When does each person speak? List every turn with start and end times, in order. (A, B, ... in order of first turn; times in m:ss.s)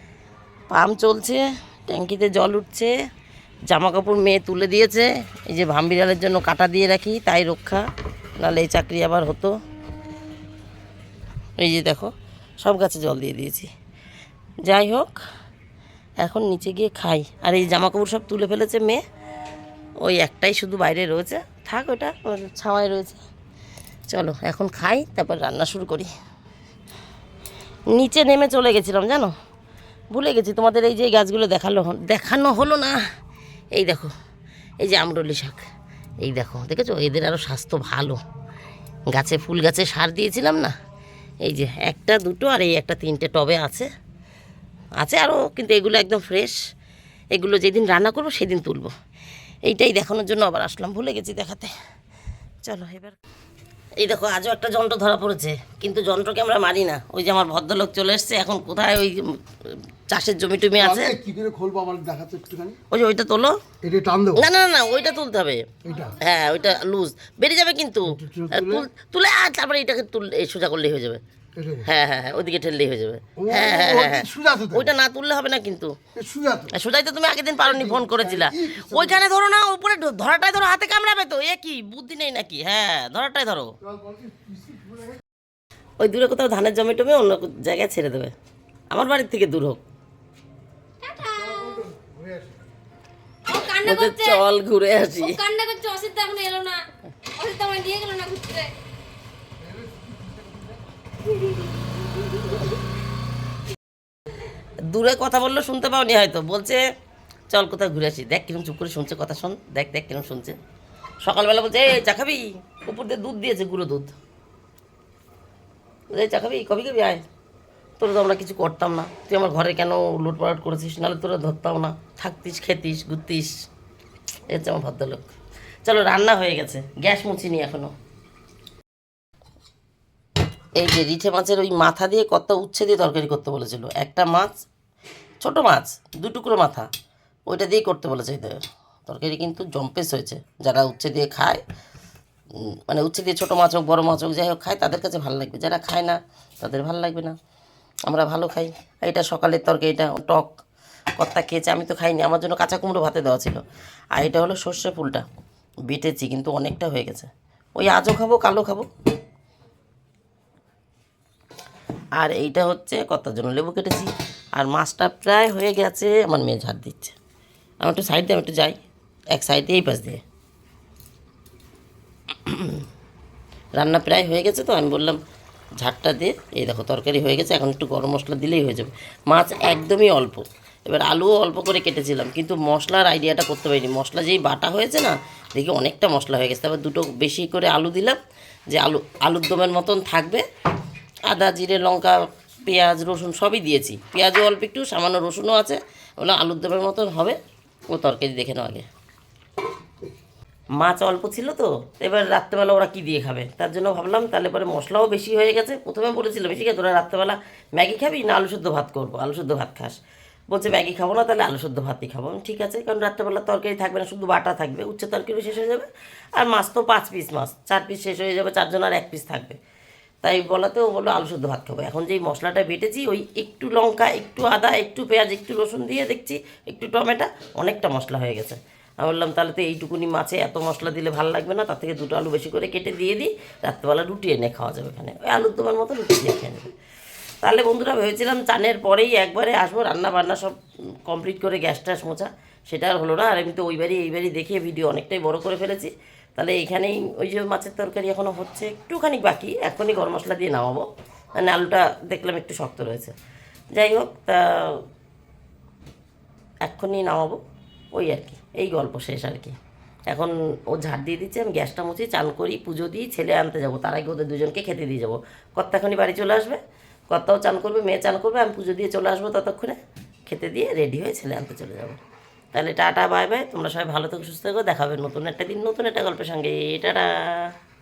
0:00.7-0:02.9 A
0:03.7-0:07.8 A
0:08.4-0:09.5 A
0:11.6-0:13.7 A
0:14.6-0:15.1 A
0:16.2-0:19.0 A
0:20.0-0:23.2 A
0:24.1-0:26.1 A
0:27.9-0:29.3 A
0:30.1-0:33.0 A
0:33.7-0:34.1 A
0:34.8-0:35.6 A
0:36.2-0:38.2 A
0:39.1-0:40.7 A
0:41.4-0:43.9 A
0:45.0-0:46.6 A
0:47.3-0:48.9 A
0:49.6-0:51.7 A
0:52.6-0:53.2 A
0:54.0-1:01.2 A
1:01.0-1:02.8 B
1:02.9-1:03.6 A
1:03.8-1:04.4 B
1:04.3-1:11.2 A
1:05.8-1:06.2 B
1:08.2-1:08.8 B
1:11.6-1:11.8 B
1:11.8-1:15.9 A
1:13.5-1:14.7 B
1:16.2-1:16.7 B
1:16.7-1:23.7 A
1:17.9-1:19.0 B
1:24.0-1:25.2 B
1:26.0-1:28.3 A
1:28.9-1:29.8 A
1:31.0-1:31.9 C
1:31.6-1:32.4 B
1:33.5-1:34.4 C
1:33.8-1:35.4 A
1:35.1-1:38.7 C
1:41.3-1:42.7 C
1:44.9-1:46.8 A
1:47.5-1:50.6 A
1:51.2-1:54.2 A
1:56.1-1:57.2 A
1:58.0-2:03.6 A
2:04.5-2:05.3 A
2:05.8-2:07.9 A
2:10.8-2:14.5 A
2:15.4-2:16.9 A
2:17.5-2:21.6 A
2:22.9-2:27.4 A
2:28.1-2:30.5 A
2:31.2-2:33.6 A
2:34.1-2:35.2 A
2:35.9-2:38.9 A
2:42.2-2:47.2 A
2:47.8-2:48.8 A
2:49.3-2:50.2 A
2:52.4-2:52.8 A
2:53.8-2:55.2 A
2:55.8-3:08.2 A
3:08.7-3:10.4 A
3:11.3-3:17.4 A
3:17.9-3:18.9 A
3:20.8-3:30.0 A
3:30.5-3:39.6 A
3:40.2-3:56.6 A
3:57.4-4:10.9 A
4:11.4-4:13.1 A
4:13.7-4:14.8 A
4:16.6-4:17.4 A
4:17.9-4:19.6 A
4:20.1-4:26.6 A
4:27.1-4:32.0 A
4:32.5-4:37.5 A